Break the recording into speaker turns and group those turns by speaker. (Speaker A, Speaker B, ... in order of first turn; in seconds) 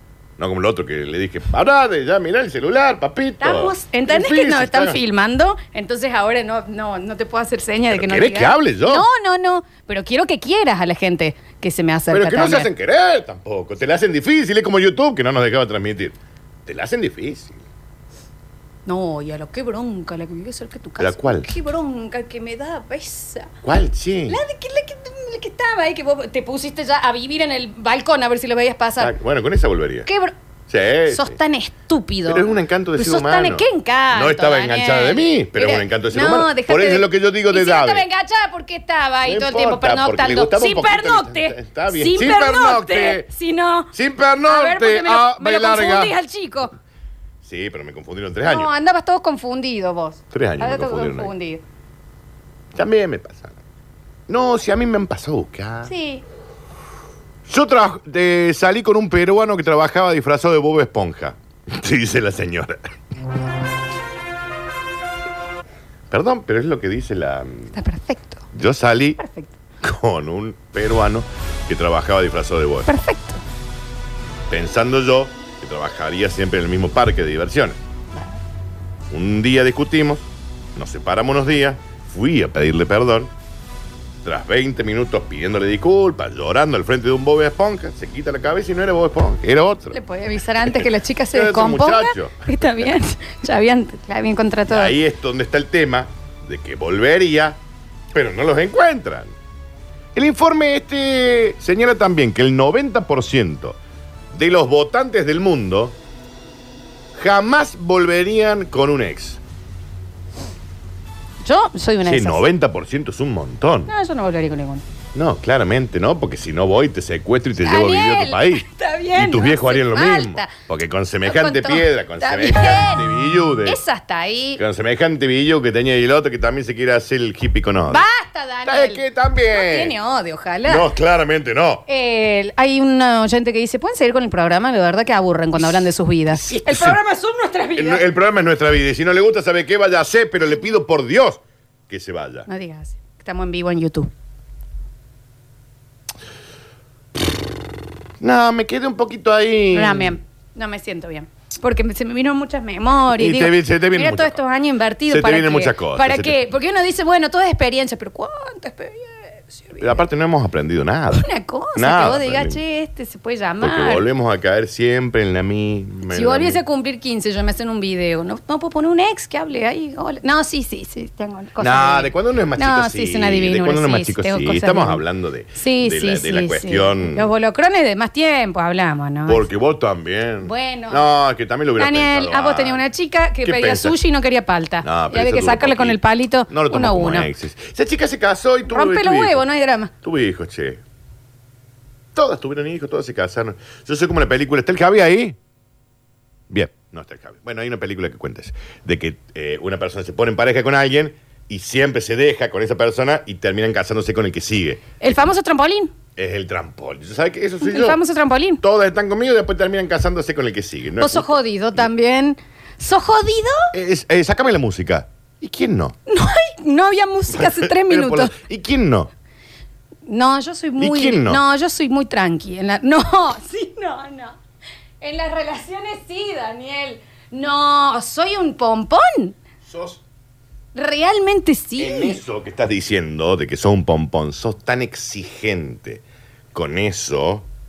Speaker A: 0.4-5.0, 7.9-9.1, 12.1-17.6, 21.0-21.5, 23.6-24.4, 29.0-30.1, 30.7-31.4, 32.2-38.0, 39.2-43.3, 43.9-46.1, 47.4-48.7, 50.3-51.3, 52.7-53.6, 54.3-55.9, 57.5-62.9, 66.1-67.7, 68.5-69.2, 69.8-72.9, 74.5-77.8, 79.1-83.3, 84.2-90.0, 90.6-92.8, 94.7-97.6, 98.1-99.3, 100.1-103.8, 104.3-106.0, 107.1-109.4, 112.0-113.9, 115.1-123.8, 124.5-128.0, 128.6-129.9, 130.7-131.8, 135.6-137.0, 137.7-142.5, 148.2-150.2, 153.1-154.4, 155.1-156.4, 159.8-162.6, 163.6-166.6, 171.6-177.3, 179.2-182.8, 183.4-183.9, 184.8-189.4, 190.0-190.8, 192.1-195.4, 196.5-205.0, 206.2-208.0, 208.6-211.3, 213.7-215.9, 217.3-219.1, 220.8-221.4, 229.6-230.0, 231.8-236.0, 236.5-237.5
Speaker B: 3.4-12.7, 18.9-23.5, 24.3-29.1, 30.1-30.3, 31.1-43.9, 44.5-46.7, 48.4-51.6, 55.8-56.2, 67.7-68.4, 69.2-69.5, 72.9-73.4, 89.9-95.0, 111.4-112.4, 113.9-114.8, 117.6-120.5, 121.2-123.1, 123.6-124.6, 127.9-130.9, 131.9-138.1, 142.5-144.1, 149.7-160.0, 161.1-164.1, 166.1-175.0, 175.5-179.4, 180.4-181.1, 181.8-187.3, 188.7-189.9, 205.0-205.9, 207.6-208.6, 211.0-213.7, 216.1-218.3, 220.1-224.4, 225.0-229.4, 230.7-232.2